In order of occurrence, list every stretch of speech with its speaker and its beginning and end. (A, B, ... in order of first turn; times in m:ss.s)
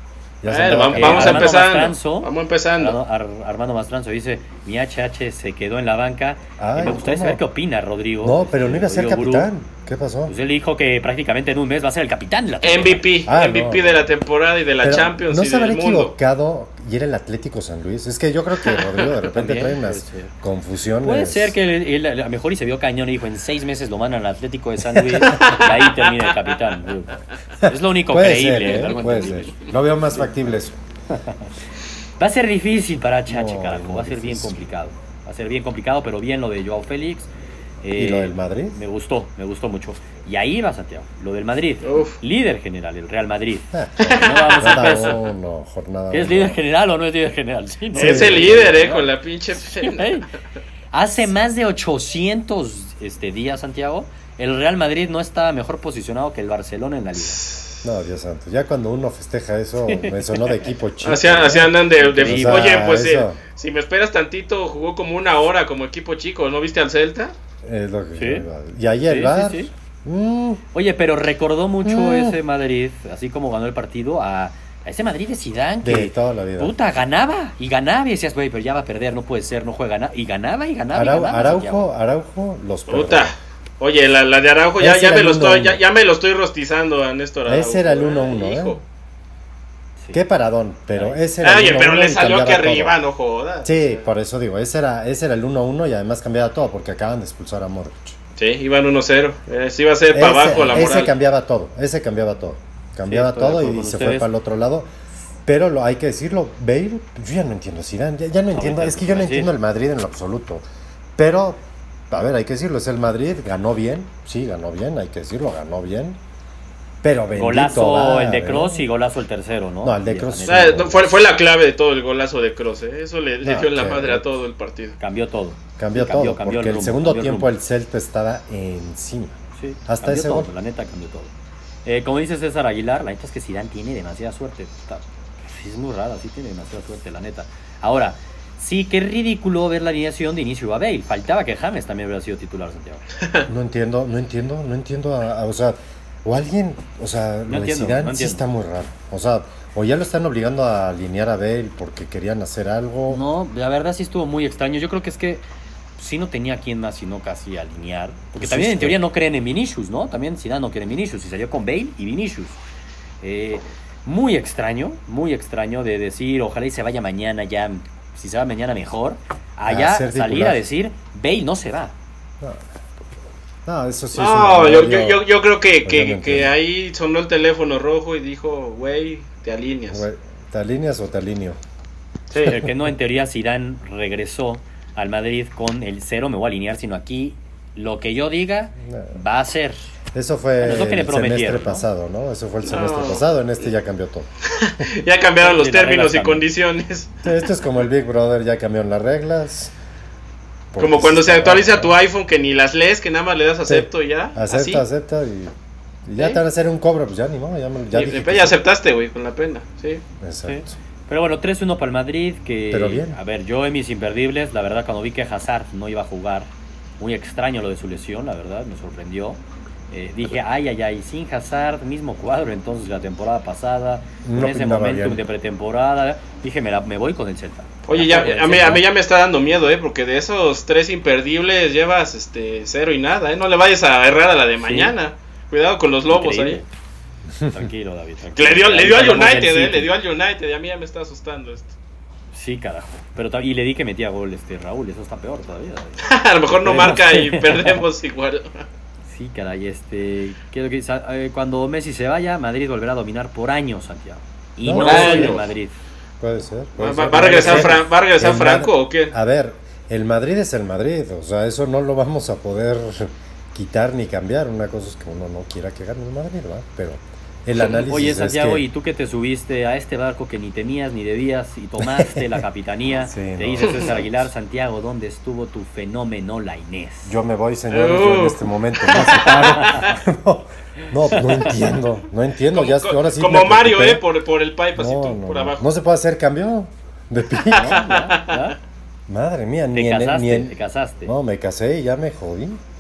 0:00.4-0:01.6 A
0:00.5-0:03.0 B
0:00.9-0:09.5 C
0:06.6-0:07.4 A
0:08.2-0:10.4 A
0:10.3-0:13.1 C
0:12.6-0:16.1 B
0:13.3-0:14.0 A
0:14.8-0:21.6 A
0:19.3-0:20.3 C
0:21.0-0:30.3 C
0:25.0-0:25.5 A
0:27.6-0:30.8 A
0:31.1-0:31.5 C
0:32.2-0:37.3 C
0:33.3-0:34.6 A
0:37.8-0:45.2 C
0:38.0-0:38.8 A
0:41.8-0:42.2 B
0:43.7-0:46.6 A
0:44.0-0:45.2 B
0:46.1-0:49.1 C
0:47.9-0:48.9 A
0:47.9-0:50.2 B
0:49.8-0:50.3 C
0:50.9-0:57.4 C
0:57.8-1:03.4 A
0:59.9-1:00.5 C
1:01.0-1:07.4 B
1:02.1-1:02.8 C
1:07.6-1:10.6 A
1:08.2-1:08.4 C
1:09.1-1:09.7 C
1:10.7-1:21.9 C
1:11.8-1:12.4 A
1:15.8-1:16.8 A
1:20.9-1:23.3 A
1:22.9-1:28.8 B
1:24.8-1:25.8 A
1:27.5-1:28.8 A
1:30.1-1:33.0 A
1:30.9-1:31.2 C
1:31.4-1:34.0 B
1:33.6-1:38.2 A
1:38.4-1:41.1 B
1:40.1-1:44.9 A
1:43.0-1:44.3 C
1:45.4-1:50.6 A
1:48.5-1:49.5 C
1:51.2-1:56.2 A
1:57.0-1:58.8 A
1:57.4-2:01.0 C
1:59.8-2:01.2 A
2:00.5-2:05.0 B
2:03.4-2:04.3 A
2:05.0-2:07.5 C
2:05.8-2:10.5 A
2:09.6-2:11.3 C
2:11.8-2:23.0 C
2:23.5-2:33.2 A
2:27.5-2:28.4 C
2:33.1-2:35.4 C
2:36.0-2:42.6 C
2:38.4-2:39.0 A
2:43.2-2:51.9 C
2:49.7-2:50.6 A
2:53.7-2:55.2 A
2:54.2-3:00.1 B
2:55.8-2:56.5 A
2:59.9-3:01.6 A
3:02.3-3:09.8 C
3:02.4-3:02.7 A
3:08.8-3:09.2 A
3:10.1-3:14.3 A
3:10.6-3:11.8 C
3:12.7-3:13.2 B
3:14.5-3:17.2 B
3:15.4-3:16.4 C
3:17.2-3:19.7 A
3:20.7-3:21.9 A
3:20.8-3:24.8 B
3:23.7-3:25.5 A
3:26.1-3:28.6 A
3:27.9-3:30.0 B
3:30.2-3:30.8 A
3:30.5-3:39.4 C
3:32.7-3:33.2 A
3:39.9-3:48.8 C
3:44.2-3:45.2 A
3:47.9-3:56.6 B
3:54.6-3:55.0 C
3:56.1-3:56.7 C
3:57.5-3:59.9 C
3:58.4-4:01.7 B
4:02.3-4:06.1 C
4:06.0-4:08.6 B
4:06.6-4:07.8 C
4:09.1-4:15.8 C
4:14.6-4:15.5 A
4:14.7-4:15.4 B
4:16.2-4:28.6 A
4:16.8-4:19.1 B
4:17.2-4:17.7 C
4:27.6-4:37.2 C
4:31.8-4:32.4 A
4:33.0-4:34.3 A
4:37.1-4:44.0 A
4:37.7-4:39.9 B
4:39.2-4:39.9 C
4:41.2-4:41.5 C
4:42.5-4:45.7 B
4:44.8-4:47.8 A
4:47.5-4:48.5 B
4:47.5-4:48.6 C
4:49.1-4:52.6 A
4:49.7-4:51.1 C